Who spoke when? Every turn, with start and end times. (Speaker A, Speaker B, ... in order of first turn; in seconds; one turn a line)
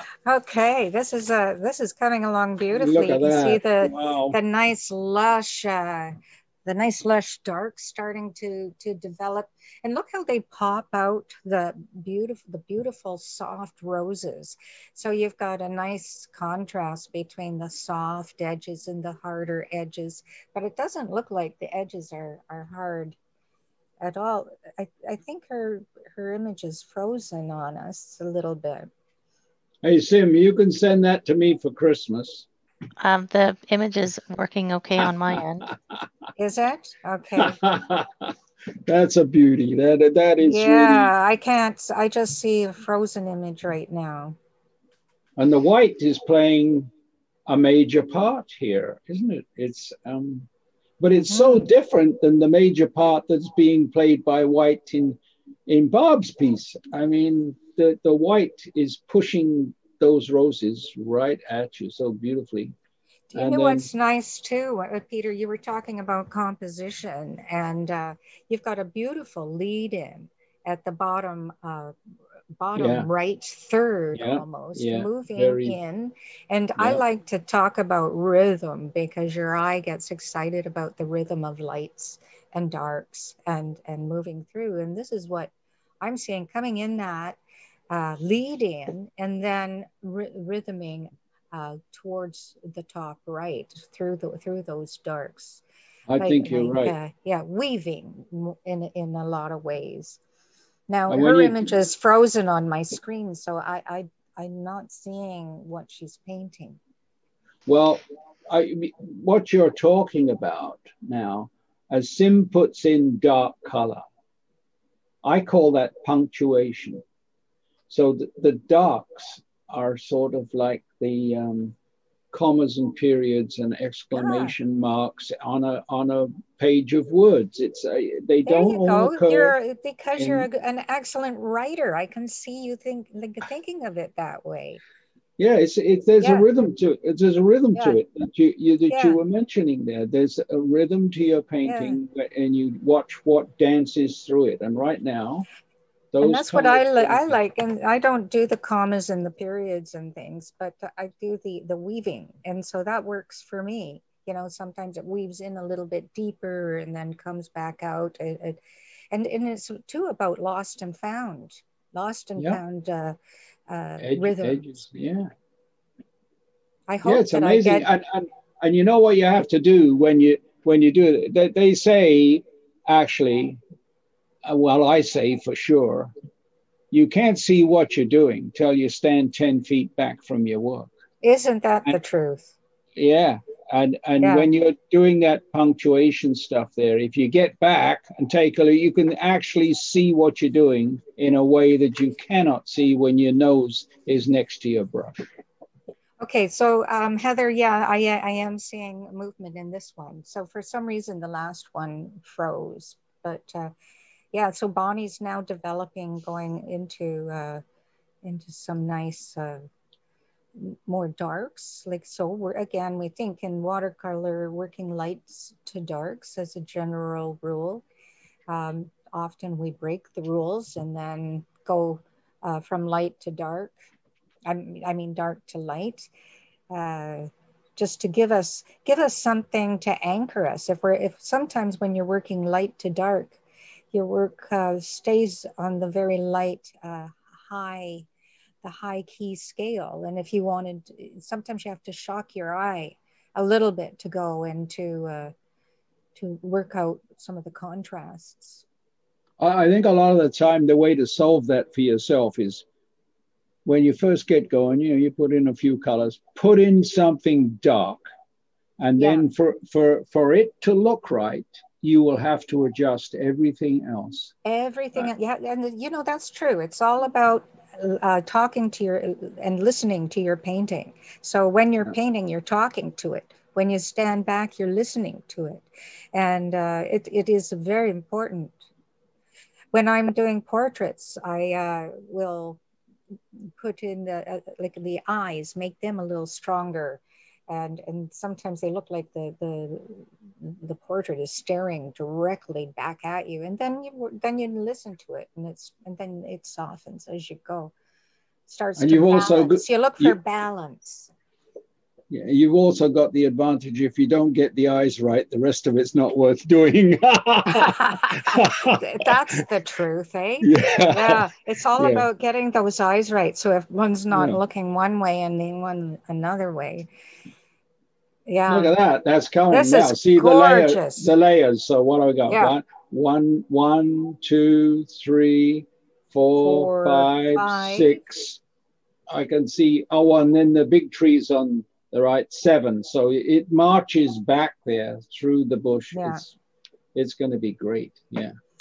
Speaker A: 0.2-23.2
Speaker B: 2.7-4.4
Speaker A: 24.0-28.9
Speaker B: 29.8-32.5
Speaker C: 33.0-35.7
Speaker B: 35.7-36.0
Speaker A: 36.4-37.6
Speaker B: 37.4-38.3
Speaker B: 38.9-41.1
Speaker A: 40.4-44.4
Speaker B: 45.4-46.9
Speaker B: 47.5-50.5
Speaker B: 51.0-62.7
Speaker A: 51.3-51.7
Speaker A: 63.3-71.9
Speaker B: 63.3-63.9
Speaker A: 72.6-87.4
Speaker B: 72.8-73.1
Speaker B: 74.1-75.8
Speaker A: 87.9-95.6
Speaker B: 96.1-97.0
Speaker A: 96.2-100.2
Speaker A: 100.9-106.8
Speaker B: 101.1-101.7
Speaker B: 107.7-114.0
Speaker B: 115.2-117.0
Speaker B: 117.9-121.8
Speaker B: 122.3-129.6
Speaker A: 124.2-124.5
Speaker A: 128.4-134.8
Speaker B: 130.2-130.5
Speaker B: 135.4-145.5
Speaker A: 138.9-139.2
Speaker A: 141.7-142.0
Speaker B: 146.1-147.3
Speaker A: 146.2-158.6
Speaker A: 159.1-163.2
Speaker A: 163.7-164.6
Speaker B: 164.0-165.3
Speaker A: 166.9-167.9
Speaker B: 167.1-173.6
Speaker B: 174.4-176.1
Speaker B: 176.9-180.9
Speaker A: 181.2-182.5
Speaker B: 183.0-195.2
Speaker A: 184.2-184.5
Speaker A: 196.2-203.7
Speaker A: 204.3-207.6
Speaker A: 208.2-209.7
Speaker A: 210.6-217.8
Speaker A: 218.5-223.8
Speaker A: 224.5-226.1
Speaker A: 226.7-233.4
Speaker A: 233.9-238.1
Speaker A: 238.6-245.3
Speaker A: 246.2-248.6
Speaker B: 249.4-252.7
Speaker B: 253.7-258.0
Speaker B: 258.8-264.3
Speaker A: 259.0-259.3
Speaker A: 264.4-278.6
Speaker A: 279.7-282.6
Speaker A: 283.6-297.7
Speaker A: 298.5-301.1
Speaker B: 298.8-300.2
Speaker B: 302.1-309.2
Speaker A: 307.5-316.9
Speaker B: 310.4-312.1
Speaker B: 314.1-314.4
Speaker A: 318.3-318.7
Speaker B: 318.5-328.4
Speaker A: 319.5-321.1
Speaker A: 322.3-322.6
Speaker A: 326.4-328.0
Speaker B: 329.1-336.4
Speaker A: 335.9-336.2
Speaker B: 336.9-338.3